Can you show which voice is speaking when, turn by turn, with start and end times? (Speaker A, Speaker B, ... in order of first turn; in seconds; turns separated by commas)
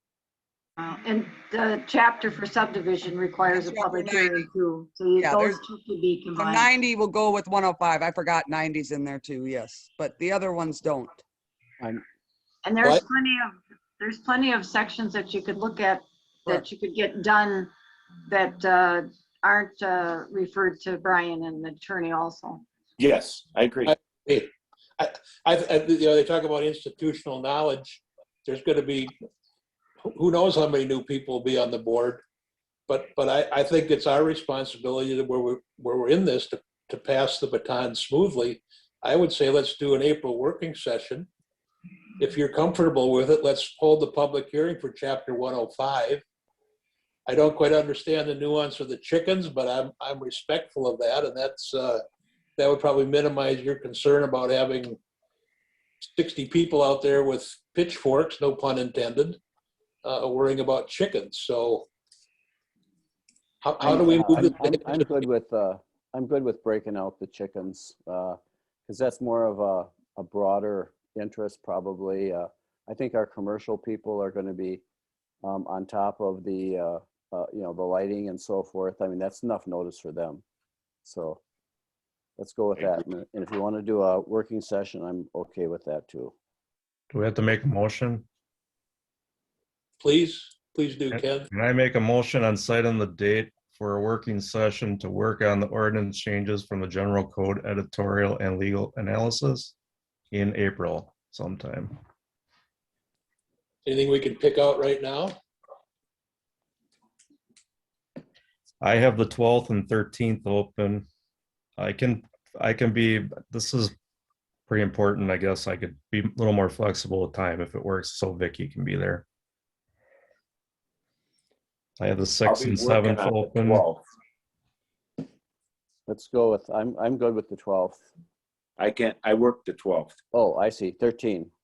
Speaker A: 0.8-6.7, Speaker B: 3.5-4.5, Speaker B: 5.2-5.6, Speaker B: 6.4-11.2, Speaker A: 12.6-17.7, Speaker A: 18.3-22.6, Speaker C: 23.0-23.9, Speaker D: 23.9-29.1, Speaker D: 30.1-32.2, Speaker D: 32.9-41.3, Speaker D: 42.2-46.2, Speaker D: 47.3-52.0, Speaker D: 52.6-55.0, Speaker D: 56.0-59.4, Speaker D: 60.0-61.9, Speaker D: 63.6-65.1, Speaker E: 63.8-74.8, Speaker E: 75.4-80.4, Speaker E: 81.0-81.4, Speaker E: 82.4-86.3, Speaker C: 82.8-83.0, Speaker F: 87.1-88.2, Speaker D: 90.0-91.5, Speaker F: 91.1-99.7, Speaker F: 100.3-102.0, Speaker D: 103.9-105.3, Speaker F: 108.8-111.1, Speaker F: 111.8-113.9, Speaker F: 114.7-119.2, Speaker F: 122.0-123.8, Speaker C: 122.5-124.0, Speaker E: 126.1-128.1, Speaker C: 128.8-130.2, Speaker E: 130.3-131.5